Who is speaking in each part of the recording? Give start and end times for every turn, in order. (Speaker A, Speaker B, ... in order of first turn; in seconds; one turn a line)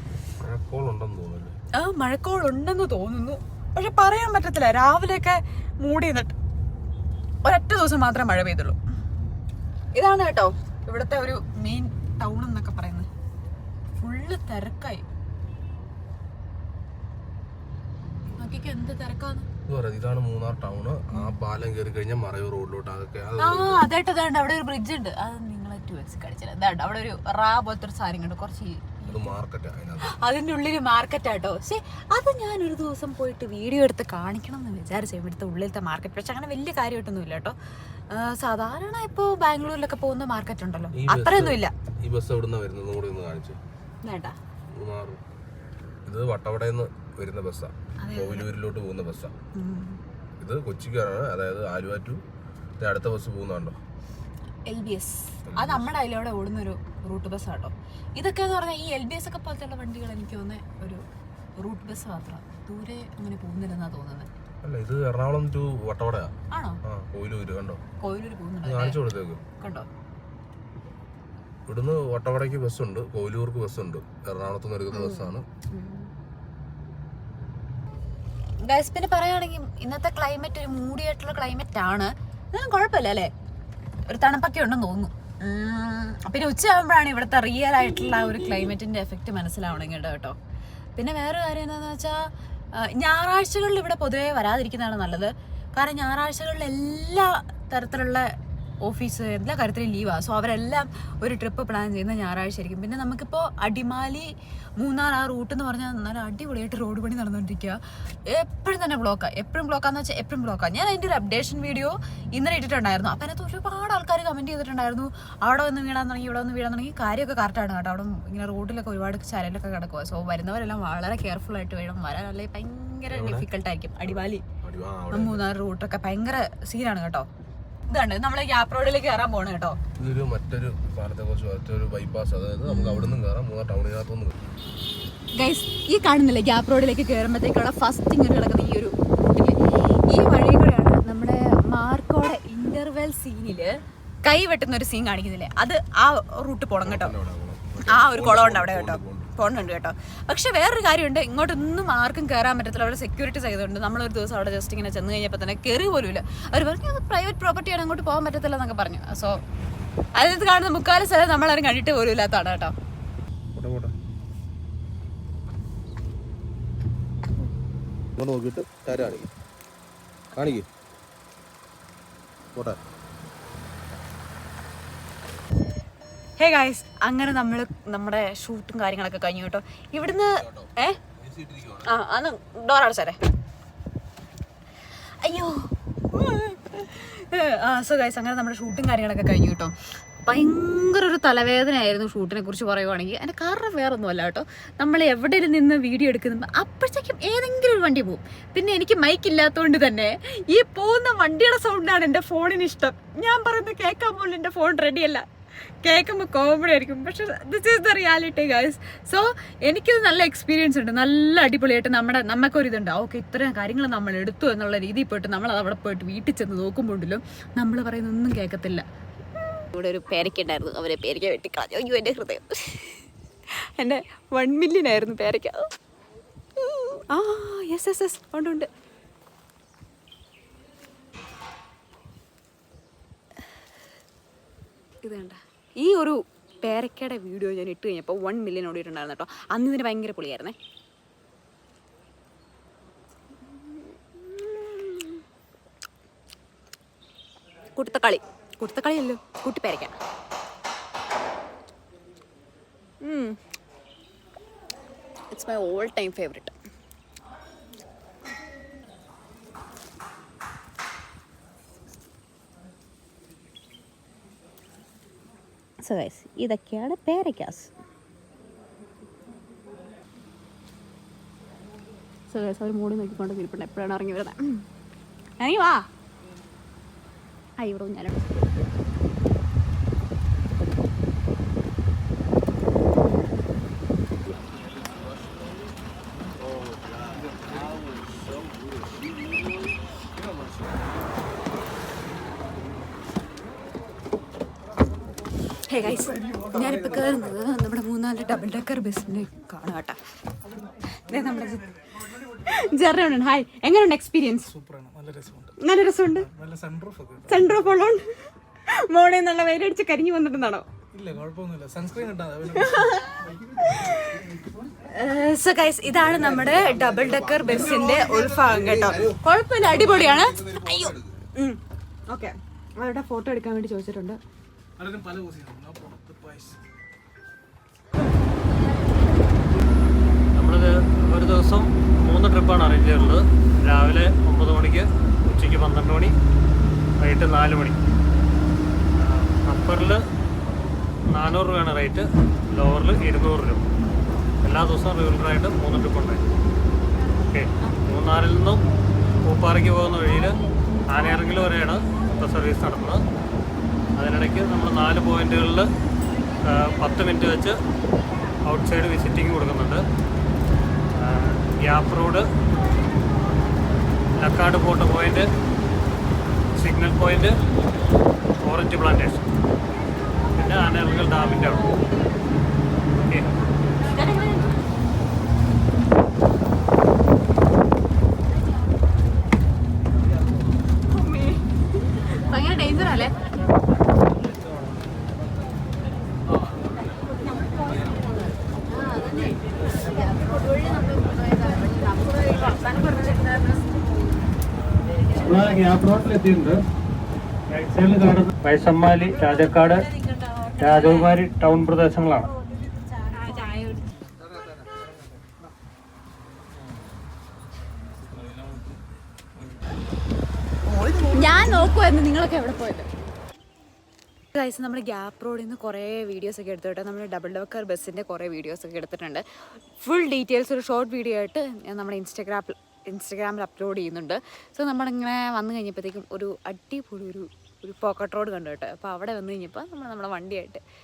Speaker A: 0.4-1.6
Speaker B: 1.7-6.3
Speaker B: 7.4-8.8
Speaker B: 9.9-13.1
Speaker B: 14.0-15.0
Speaker B: 18.4-19.5
Speaker A: 19.7-23.9
Speaker B: 21.1-21.4
Speaker B: 23.4-29.4
Speaker A: 29.1-30.2
Speaker B: 30.1-37.5
Speaker B: 38.1-41.7
Speaker A: 40.9-43.6
Speaker B: 44.0-44.4
Speaker A: 44.7-45.2
Speaker A: 46.1-49.4
Speaker B: 48.0-48.5
Speaker B: 49.6-50.0
Speaker A: 50.4-52.2
Speaker A: 52.8-53.8
Speaker B: 54.7-61.0
Speaker A: 55.5-55.9
Speaker B: 61.6-64.3
Speaker A: 64.6-66.3
Speaker B: 66.5-66.8
Speaker A: 66.8-67.8
Speaker B: 68.0-69.0
Speaker A: 68.6-69.4
Speaker B: 69.6-69.9
Speaker A: 71.7-75.5
Speaker B: 74.9-76.1
Speaker B: 78.6-83.3
Speaker B: 84.1-90.4
Speaker B: 91.0-124.5
Speaker A: 123.1-123.5
Speaker A: 124.6-125.5
Speaker B: 125.1-127.3
Speaker B: 127.9-129.8
Speaker A: 130.0-134.4
Speaker B: 132.7-133.2
Speaker B: 135.4-143.7
Speaker B: 144.2-147.1
Speaker A: 146.8-149.3
Speaker B: 147.9-159.4
Speaker B: 160.2-162.7
Speaker A: 163.6-163.9
Speaker A: 168.2-169.3
Speaker A: 170.3-170.7
Speaker A: 172.5-172.8
Speaker B: 176.4-181.0
Speaker A: 180.1-181.9
Speaker B: 181.8-183.2
Speaker B: 185.2-189.7
Speaker B: 190.2-205.3
Speaker B: 205.8-218.8
Speaker B: 219.6-225.7
Speaker B: 226.7-228.7
Speaker B: 235.0-240.6
Speaker B: 243.7-245.2
Speaker B: 247.8-249.9
Speaker B: 253.0-253.4
Speaker B: 255.3-256.5
Speaker B: 265.8-267.7
Speaker B: 272.3-274.7
Speaker B: 275.4-275.9
Speaker B: 277.6-278.7
Speaker B: 295.7-300.0
Speaker B: 301.1-301.7
Speaker B: 302.4-304.5
Speaker C: 304.5-305.6
Speaker B: 305.6-306.3
Speaker C: 306.2-307.5
Speaker B: 307.3-308.1
Speaker B: 308.7-310.7
Speaker C: 310.9-313.6
Speaker B: 312.6-313.1
Speaker B: 313.6-314.2
Speaker B: 314.9-324.2
Speaker C: 316.9-318.5
Speaker A: 318.0-319.2
Speaker A: 319.7-321.2
Speaker C: 324.8-326.6
Speaker D: 330.4-336.1
Speaker D: 337.0-337.8
Speaker D: 338.9-340.0
Speaker D: 341.1-343.6
Speaker D: 344.4-346.2
Speaker D: 347.3-348.6
Speaker D: 349.2-350.4
Speaker D: 350.9-353.0
Speaker D: 354.0-355.7
Speaker D: 356.4-357.6
Speaker D: 358.4-359.8
Speaker D: 360.9-362.3
Speaker D: 364.2-365.3
Speaker D: 366.6-367.4
Speaker D: 368.4-369.3
Speaker D: 370.4-371.7
Speaker B: 373.9-374.5
Speaker B: 380.9-383.1
Speaker B: 388.8-393.7
Speaker D: 395.1-396.6
Speaker D: 397.5-399.9
Speaker D: 400.5-402.3
Speaker B: 403.2-403.9
Speaker C: 408.0-408.7
Speaker B: 410.9-412.9
Speaker B: 414.3-419.2
Speaker B: 419.8-430.6